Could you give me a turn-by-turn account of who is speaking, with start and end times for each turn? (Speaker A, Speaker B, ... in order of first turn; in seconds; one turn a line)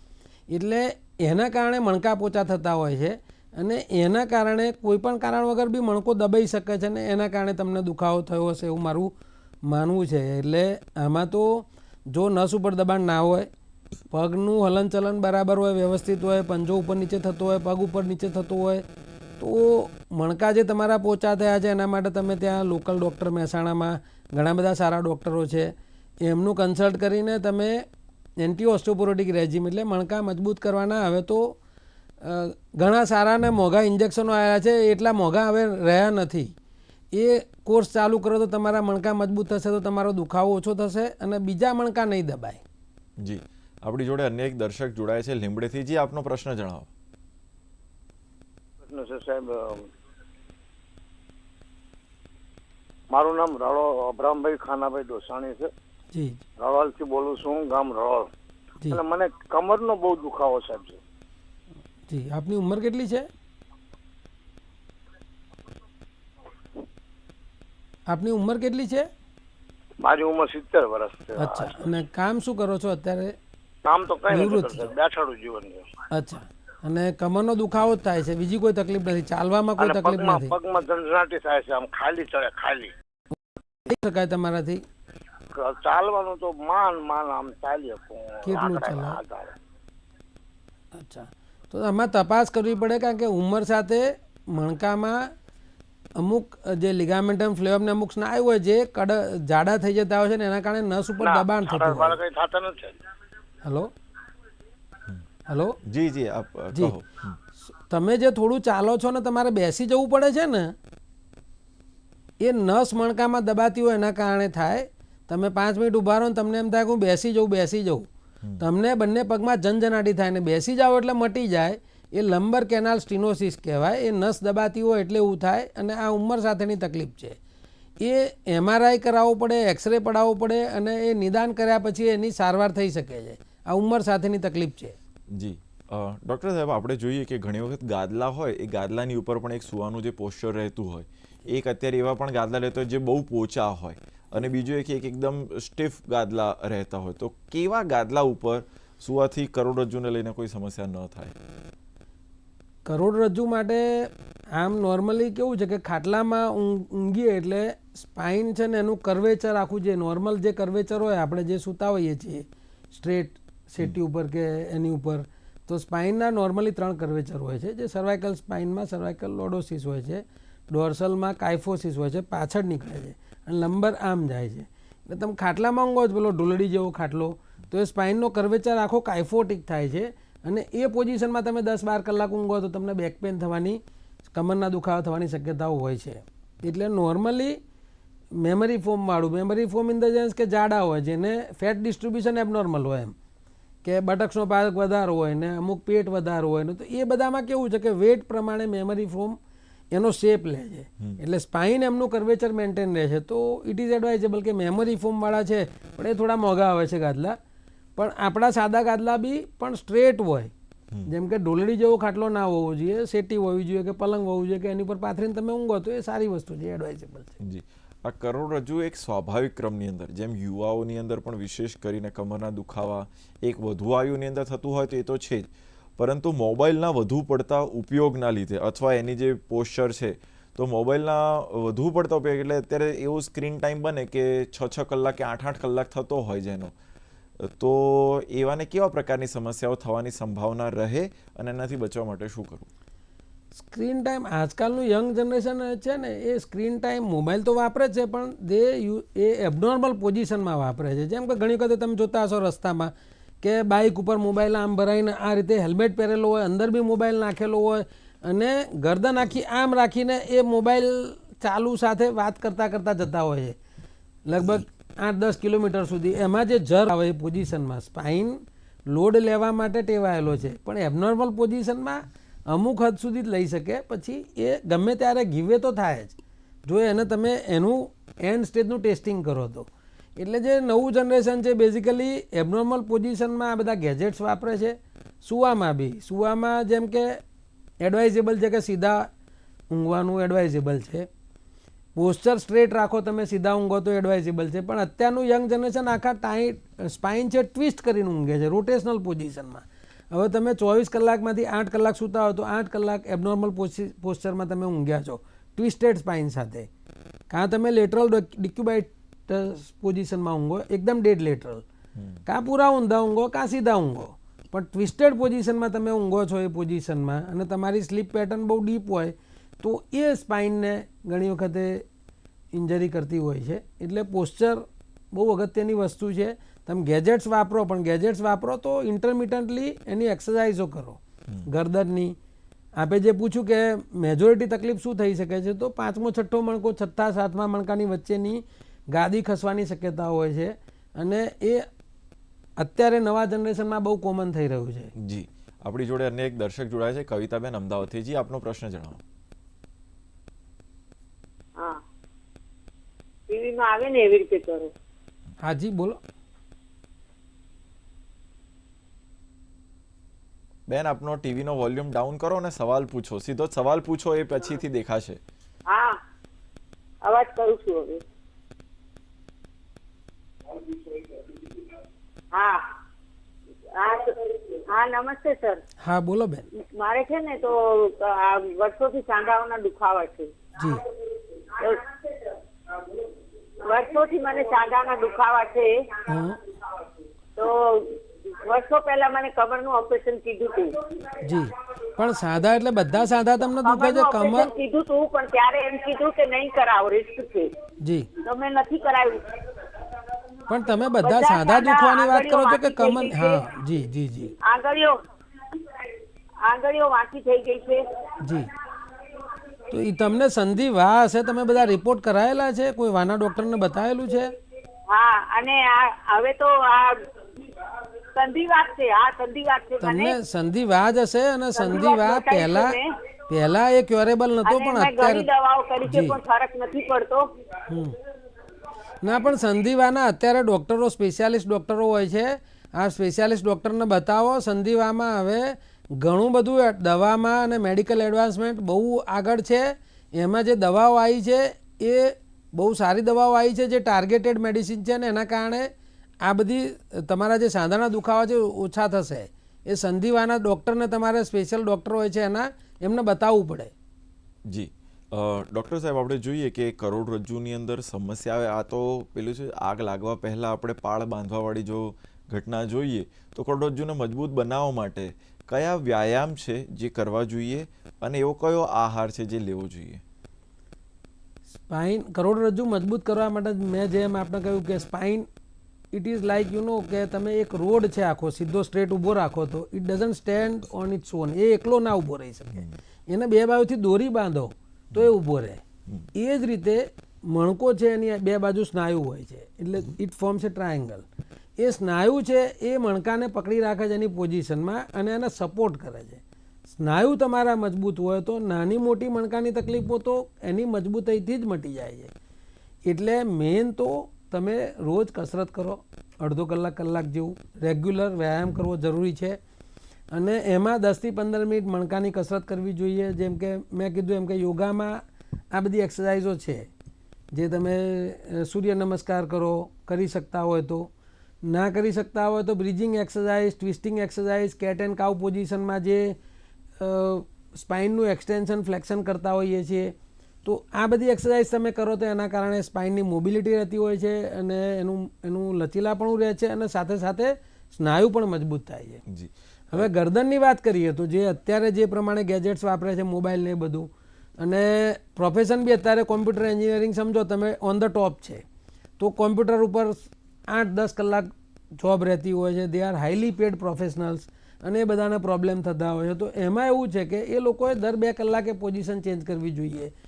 Speaker A: 0.5-9.1
Speaker A: 9.7-13.5
Speaker A: 14.1-18.8
Speaker A: 19.4-25.7
Speaker A: 26.2-27.8
Speaker A: 28.4-31.6
Speaker A: 32.2-36.5
Speaker A: 37.1-42.6
Speaker B: 43.2-46.9
Speaker C: 48.9-49.9
Speaker C: 53.1-55.7
Speaker A: 56.1-56.4
Speaker C: 56.6-58.3
Speaker C: 58.9-61.0
Speaker A: 62.1-63.3
Speaker A: 68.1-69.1
Speaker C: 70.0-71.8
Speaker A: 71.4-73.3
Speaker C: 73.9-75.9
Speaker A: 74.3-74.9
Speaker A: 76.1-80.5
Speaker C: 79.8-82.9
Speaker A: 83.9-84.8
Speaker C: 85.5-89.5
Speaker A: 88.5-89.2
Speaker A: 91.0-95.3
Speaker A: 96.2-102.2
Speaker C: 101.2-103.0
Speaker A: 103.7-103.9
Speaker A: 105.5-105.8
Speaker B: 105.8-107.4
Speaker A: 107.8-110.7
Speaker A: 112.4-118.1
Speaker A: 118.6-127.4
Speaker A: 128.0-135.0
Speaker B: 135.3-151.4
Speaker A: 152.9-183.8
Speaker A: 184.3-187.6
Speaker A: 188.4-193.2
Speaker A: 193.8-199.4
Speaker A: 199.9-207.4
Speaker A: 208.0-210.5
Speaker A: 211.1-217.3
Speaker B: 217.4-236.7
Speaker B: 237.4-242.7
Speaker A: 243.6-252.9
Speaker A: 253.4-263.6
Speaker A: 264.3-276.1
Speaker A: 276.7-287.2
Speaker A: 287.8-289.1
Speaker A: 289.7-291.1
Speaker A: 291.9-306.7
Speaker A: 307.3-311.6
Speaker B: 312.0-312.2
Speaker A: 312.3-321.9
Speaker A: 322.5-332.2
Speaker A: 332.8-338.4
Speaker A: 338.9-341.7
Speaker A: 342.6-344.9
Speaker B: 345.0-349.0
Speaker D: 353.3-354.7
Speaker A: 355.4-356.0
Speaker B: 360.7-365.2
Speaker D: 365.7-366.0
Speaker D: 367.0-368.0
Speaker D: 372.3-372.7
Speaker D: 373.8-375.6
Speaker A: 375.8-376.4
Speaker D: 376.6-380.4
Speaker A: 380.6-380.8
Speaker D: 381.6-381.9
Speaker D: 383.6-385.9
Speaker A: 386.1-386.4
Speaker D: 387.4-390.8
Speaker A: 391.2-394.5
Speaker D: 393.6-397.5
Speaker A: 397.8-398.1
Speaker D: 398.2-399.3
Speaker A: 400.5-404.3
Speaker D: 401.0-403.4
Speaker D: 404.4-405.0
Speaker D: 406.4-407.9
Speaker A: 408.2-408.5
Speaker A: 409.7-414.3
Speaker D: 414.9-417.0
Speaker D: 418.1-420.2
Speaker A: 419.8-422.8
Speaker D: 421.6-422.9
Speaker A: 423.3-425.3
Speaker D: 424.4-427.3
Speaker A: 425.9-426.2
Speaker A: 427.7-428.0
Speaker A: 429.0-445.7
Speaker A: 446.2-453.7
Speaker B: 454.4-470.0
Speaker A: 471.7-475.3
Speaker A: 475.9-485.6
Speaker A: 486.1-491.0
Speaker A: 491.6-502.1
Speaker A: 502.9-509.4
Speaker A: 510.1-515.0
Speaker A: 515.5-516.7
Speaker A: 517.3-520.9
Speaker A: 521.5-526.1
Speaker A: 526.8-529.9
Speaker A: 530.5-539.0
Speaker B: 539.1-539.9
Speaker A: 539.7-543.9
Speaker A: 544.4-548.4
Speaker A: 549.0-559.9